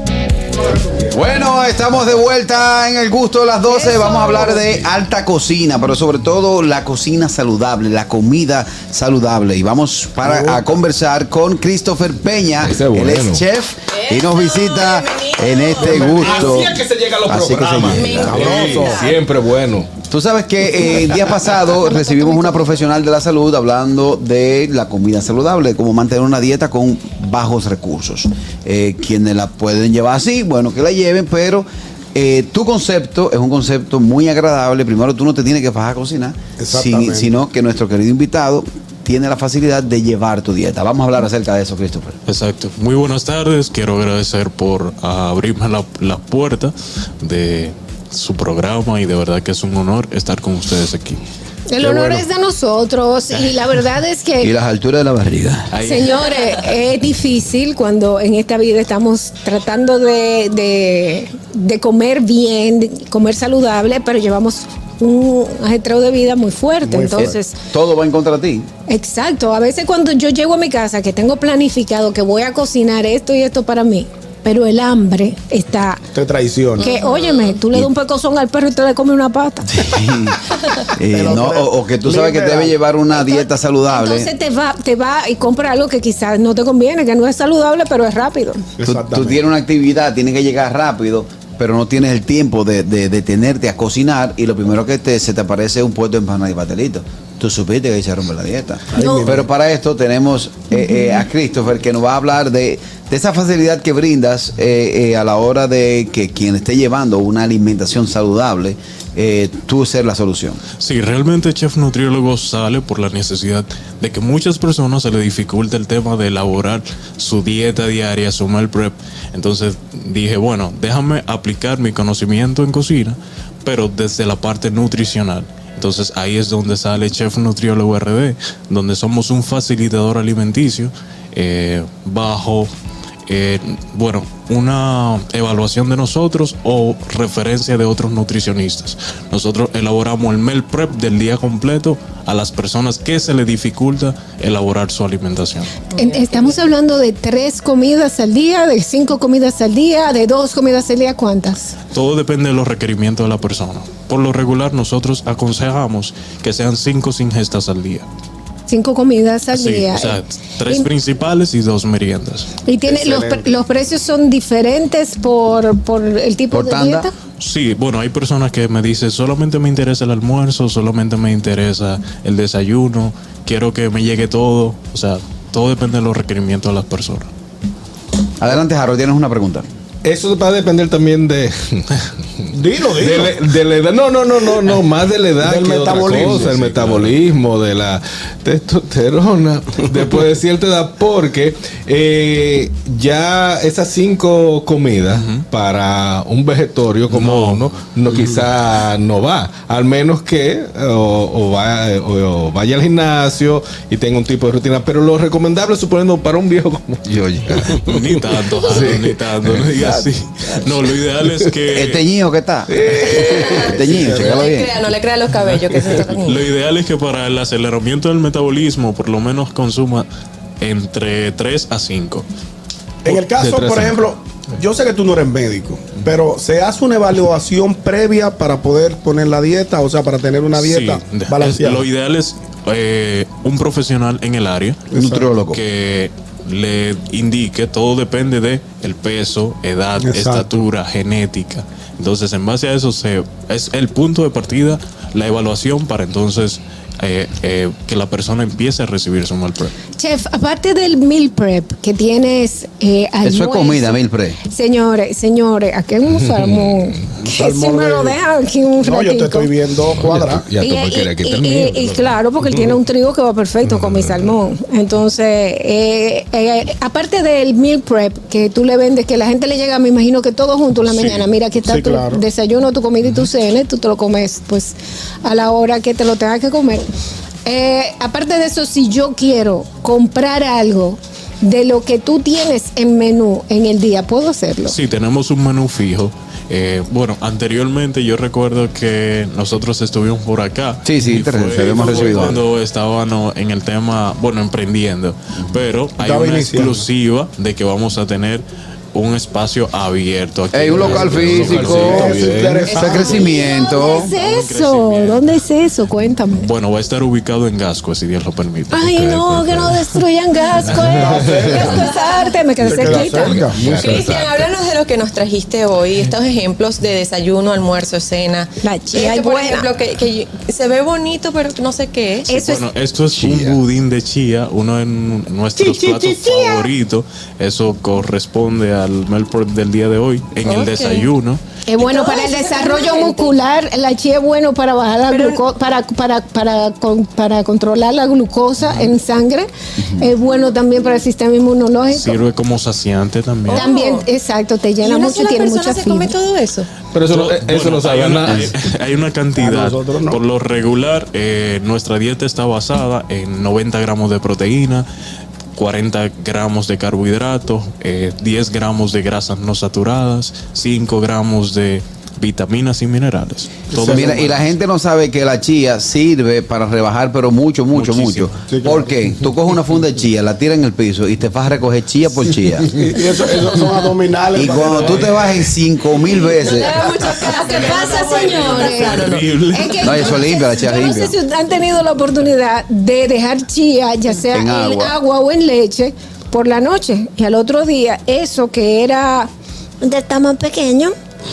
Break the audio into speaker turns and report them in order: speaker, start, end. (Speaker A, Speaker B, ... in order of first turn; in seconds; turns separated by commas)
Speaker A: 1.1-18.6, Speaker B: 3.8-4.5, Speaker C: 10.2-10.6, Speaker D: 12.6-13.4, Speaker E: 14.1-15.9, Speaker C: 15.8-16.6, Speaker D: 15.8-19.9, Speaker E: 17.9-19.2, Speaker C: 18.1-19.1, Speaker A: 20.1-42.2, Speaker B: 22.2-22.6, Speaker C: 36.6-37.3, Speaker F: 42.3-51.2, Speaker B: 51.7-54.5, Speaker A: 54.4-55.7, Speaker F: 55.7-56.2, Speaker B: 55.8-67.6, Speaker C: 66.8-67.3, Speaker A: 67.2-68.7, Speaker B: 68.9-76.0, Speaker C: 76.1-76.9, Speaker B: 76.8-79.7, Speaker E: 76.8-77.4, Speaker A: 79.7-84.3, Speaker C: 81.1-82.7, Speaker B: 83.2-88.7, Speaker C: 88.8-89.4, Speaker A: 88.8-110.6, Speaker C: 98.9-99.5, Speaker B: 99.0-99.3, Speaker F: 110.8-132.7, Speaker F: 133.3-145.8, Speaker E: 145.9-146.5, Speaker B: 146.0-151.7, Speaker F: 151.9-158.1, Speaker B: 158.7-160.9, Speaker F: 159.5-162.5, Speaker B: 162.7-167.1, Speaker C: 162.9-163.5, Speaker A: 166.5-167.1, Speaker F: 167.4-177.3, Speaker A: 178.4-179.7, Speaker D: 180.0-209.9, Speaker C: 182.5-183.3, Speaker C: 185.4-186.7, Speaker F: 186.1-187.1, Speaker F: 195.1-195.4, Speaker F: 197.1-197.8, Speaker F: 207.8-212.0, Speaker A: 209.8-210.7, Speaker A: 211.7-214.7, Speaker D: 212.7-214.2, Speaker E: 213.0-216.5, Speaker C: 213.8-214.4, Speaker D: 215.5-216.1, Speaker F: 216.2-220.1, Speaker F: 220.6-222.3, Speaker C: 223.0-231.8, Speaker D: 223.1-224.1, Speaker F: 230.6-234.8, Speaker C: 234.9-235.4, Speaker A: 234.9-235.6, Speaker F: 235.5-249.7, Speaker C: 240.0-240.5, Speaker B: 250.0-259.5, Speaker A: 253.2-254.4, Speaker D: 256.1-257.1, Speaker C: 257.2-258.2, Speaker C: 258.8-260.4, Speaker D: 259.9-262.7, Speaker B: 260.6-276.8, Speaker D: 263.6-264.3, Speaker F: 270.9-271.3, Speaker C: 271.6-272.2, Speaker B: 277.4-284.8, Speaker F: 284.7-302.7, Speaker A: 290.9-292.4, Speaker A: 295.4-295.6, Speaker C: 296.0-296.9, Speaker A: 300.5-302.1, Speaker D: 300.7-303.3, Speaker C: 301.7-303.5, Speaker E: 302.7-303.6, Speaker A: 302.7-304.1, Speaker B: 303.1-306.5, Speaker F: 303.9-305.3, Speaker F: 306.4-308.9, Speaker B: 308.7-313.4, Speaker D: 308.9-310.0, Speaker D: 310.6-311.8, Speaker C: 310.8-311.8, Speaker E: 311.9-312.3, Speaker C: 312.6-314.1, Speaker D: 312.7-314.5, Speaker E: 313.7-322.5, Speaker B: 318.6-319.7, Speaker B: 322.3-322.6, Speaker F: 322.4-331.4, Speaker E: 325.6-326.7, Speaker E: 330.4-331.1, Speaker B: 331.7-342.2, Speaker E: 331.8-333.4, Speaker E: 335.1-335.4, Speaker A: 339.8-340.1, Speaker F: 341.9-343.7, Speaker E: 343.4-344.1, Speaker B: 343.5-346.2, Speaker E: 344.8-346.8, Speaker D: 346.9-348.5, Speaker F: 347.1-354.9, Speaker C: 349.4-350.2, Speaker F: 355.6-364.5, Speaker C: 363.7-364.2, Speaker A: 363.9-372.7, Speaker F: 367.7-368.4, Speaker C: 368.5-368.9, Speaker C: 372.7-375.2, Speaker A: 374.4-377.0, Speaker B: 376.3-389.3, Speaker E: 376.4-379.3, Speaker F: 378.3-380.2, Speaker A: 379.8-381.2, Speaker A: 384.3-385.0, Speaker B: 389.8-390.9